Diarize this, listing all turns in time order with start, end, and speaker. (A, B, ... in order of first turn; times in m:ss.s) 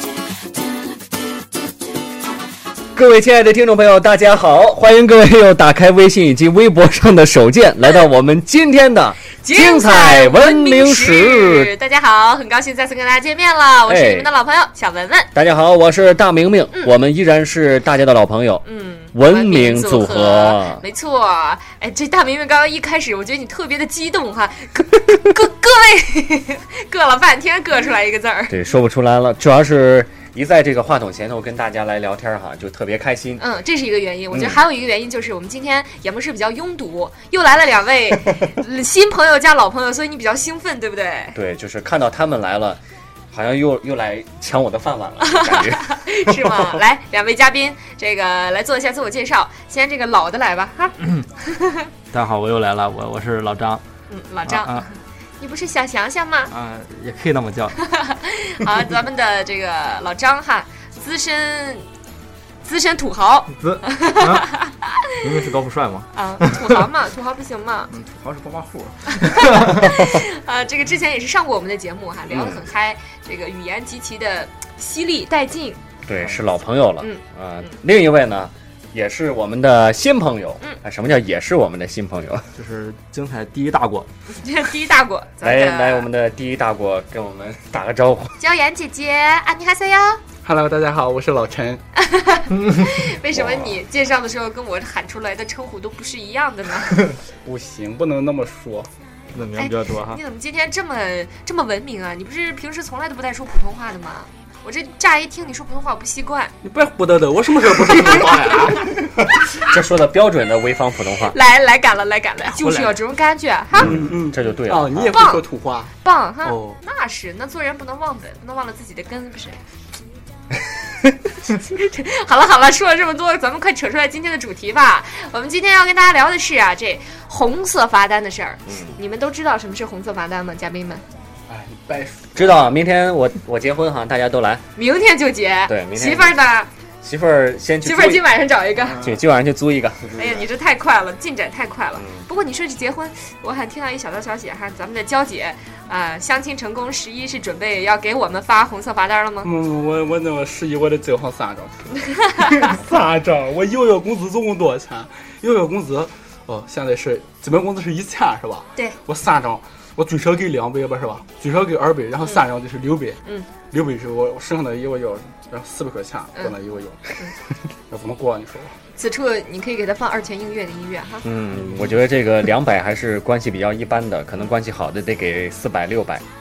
0:02.9-0:11.7 A
0:09.4-0:15.3 B
0:13.9-0:14.3 A
0:15.3-0:20.8 A
0:18.6-0:28.6 B
0:28.5-0:33.4 A
0:33.4-0:41.4 B
0:34.3-0:34.6 A
0:41.3-0:42.8 A
0:43.3-0:46.8 A
0:45.2-0:51.9 B
0:52.1-0:53.8 C
0:54.1-0:56.5 B
0:54.5-0:54.8 C
0:56.5-0:57.8 C
0:57.8-1:01.9 B
1:02.6-1:05.1 B
1:03.5-1:04.5 C
1:05.2-1:06.8 C
1:06.1-1:07.9 B
1:07.9-1:10.0 C
1:09.1-1:15.8 B
1:12.3-1:12.6 A
1:16.1-1:22.5 A
1:17.0-1:17.8 B
1:22.6-1:24.1 C
1:24.3-1:26.1 B
1:25.4-1:28.3 A
1:28.4-1:30.2 B
1:30.4-1:31.8 D
1:32.0-1:37.1 B
1:33.3-1:33.8 A
1:37.4-1:38.9 D
1:39.3-1:40.2 C
1:39.6-1:46.5 B
1:46.6-1:49.2 D
1:49.4-1:51.3 A
1:51.2-1:54.0 B
1:52.4-1:53.0 C
1:53.8-1:55.3 A
1:53.8-1:55.9 D
1:55.1-1:55.4 B
1:56.0-1:59.6 B
1:56.4-1:56.8 D
2:01.4-2:11.0 B
2:08.7-2:09.0 A
2:11.5-2:12.7 D
2:12.3-2:14.6 A
2:14.8-2:16.7 B
2:15.7-2:16.4 A
2:17.0-2:18.3 A
2:17.8-2:19.0 B
2:19.0-2:20.5 A
2:20.2-2:29.5 B
2:22.0-2:22.3 A
2:29.4-2:32.0 D
2:32.3-2:32.6 B
2:32.5-2:47.2 D
2:47.9-2:48.8 D
2:48.9-2:51.3 B
2:51.2-2:56.2 A